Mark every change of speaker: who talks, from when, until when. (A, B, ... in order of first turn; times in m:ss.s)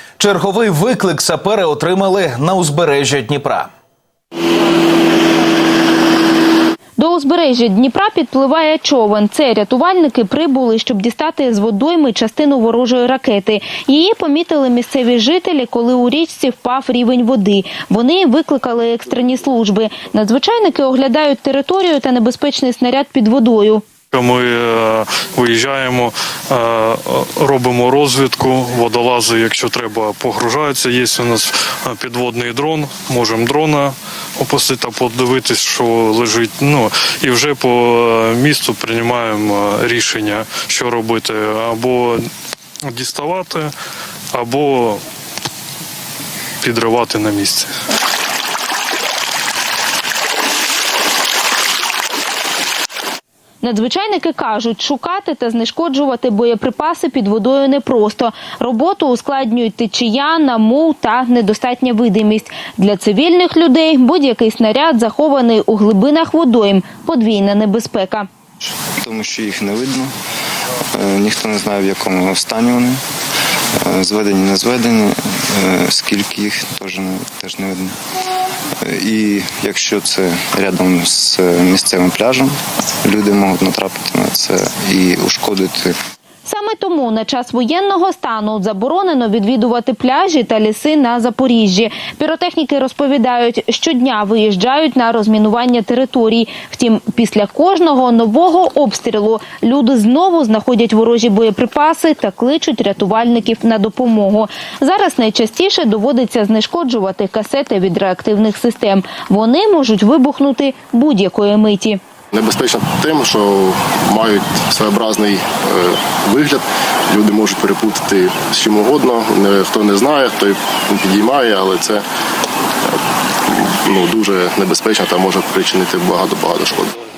0:00.2-0:03.7 A
0:07.0-0:23.8 B
0:24.1-0:42.3 C
0:42.8-0:43.7 C
0:44.3-0:45.0 C
0:46.6-0:47.7 C
0:53.6-1:08.3 B
1:09.0-1:10.1 D
1:10.9-1:13.0 D
1:13.8-1:17.9 D
1:18.8-1:26.0 D
1:26.4-1:52.0 B
1:52.3-2:02.0 E
2:03.5-2:06.9 E